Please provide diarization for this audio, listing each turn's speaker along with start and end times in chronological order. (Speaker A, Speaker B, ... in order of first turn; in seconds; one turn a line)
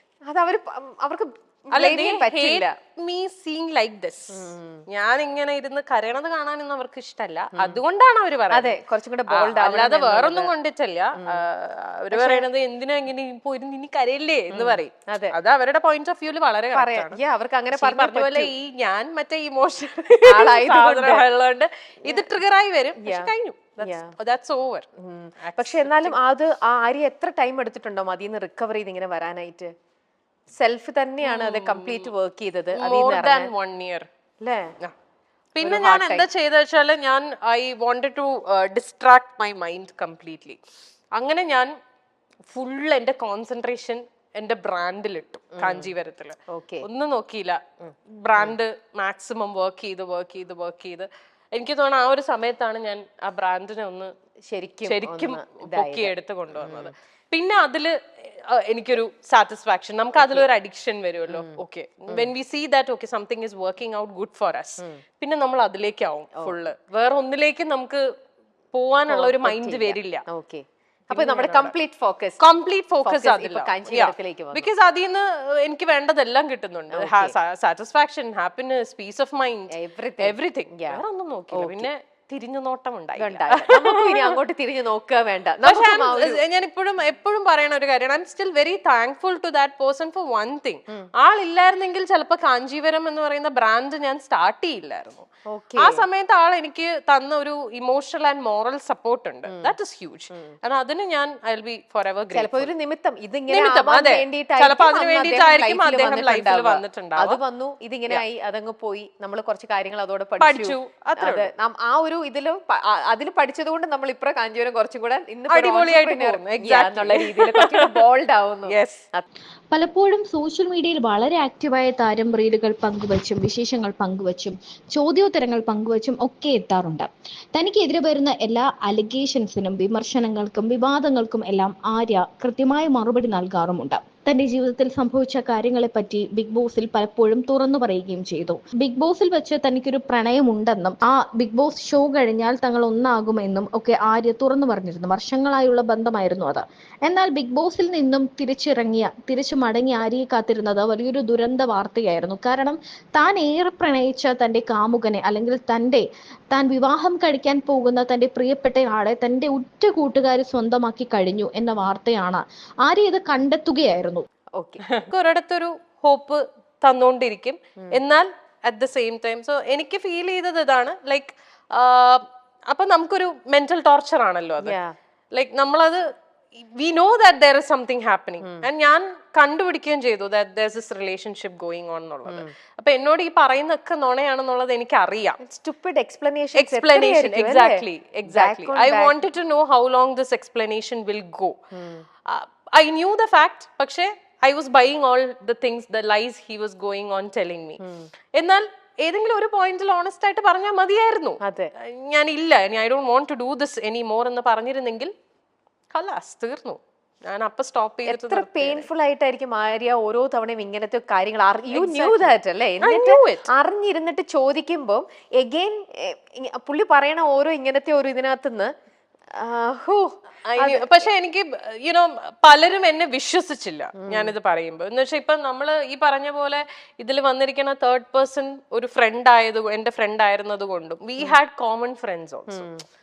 Speaker A: 0.3-2.7
Speaker B: 1.7-8.8
Speaker A: 4.3-4.8
Speaker A: 7.5-7.8
Speaker A: 8.5-10.5
Speaker B: 9.3-17.2
Speaker A: 11.2-11.4
Speaker A: 12.1-12.4
Speaker A: 14.5-15.3
Speaker A: 16.7-18.5
Speaker B: 17.7-24.9
Speaker A: 20.2-21.2
Speaker A: 22.1-22.3
Speaker A: 23.0-24.1
Speaker A: 25.0-29.7
Speaker B: 25.4-26.2
Speaker A: 30.5-33.5
Speaker B: 31.2-32.1
Speaker B: 32.8-34.1
Speaker A: 34.4-34.7
Speaker B: 35.5-40.6
Speaker A: 35.6-36.2
Speaker B: 41.1-41.7
Speaker B: 42.5-54.1
Speaker A: 45.6-45.9
Speaker A: 46.5-46.9
Speaker A: 54.5-56.9
Speaker B: 54.9-68.0
Speaker A: 60.1-60.5
Speaker A: 61.3-61.6
Speaker B: 68.7-70.2
Speaker A: 69.1-72.5
Speaker B: 71.1-71.7
Speaker B: 72.4-84.4
Speaker A: 73.0-74.7
Speaker A: 76.9-77.3
Speaker A: 79.7-81.9
Speaker A: 83.2-86.4
Speaker B: 85.6-102.7
Speaker A: 95.5-96.0
Speaker A: 99.5-99.7
Speaker A: 102.3-119.2
Speaker B: 103.5-107.4
Speaker B: 110.4-111.5
Speaker B: 115.5-118.0
Speaker B: 118.7-119.0
Speaker C: 119.7-164.2
Speaker A: 164.6-164.8
Speaker B: 164.9-174.8
Speaker A: 174.6-174.9
Speaker B: 175.3-176.0
Speaker B: 176.5-185.4
Speaker A: 182.3-182.5
Speaker A: 185.4-189.2
Speaker B: 186.6-191.6
Speaker A: 191.7-192.0
Speaker B: 192.3-197.8
Speaker A: 197.8-198.1
Speaker B: 198.3-205.1
Speaker A: 201.4-201.7
Speaker B: 205.9-208.9
Speaker A: 208.1-218.7
Speaker B: 211.7-212.3
Speaker B: 212.8-213.4
Speaker A: 219.3-221.1
Speaker B: 220.5-232.7
Speaker A: 224.0-224.3
Speaker A: 232.5-232.8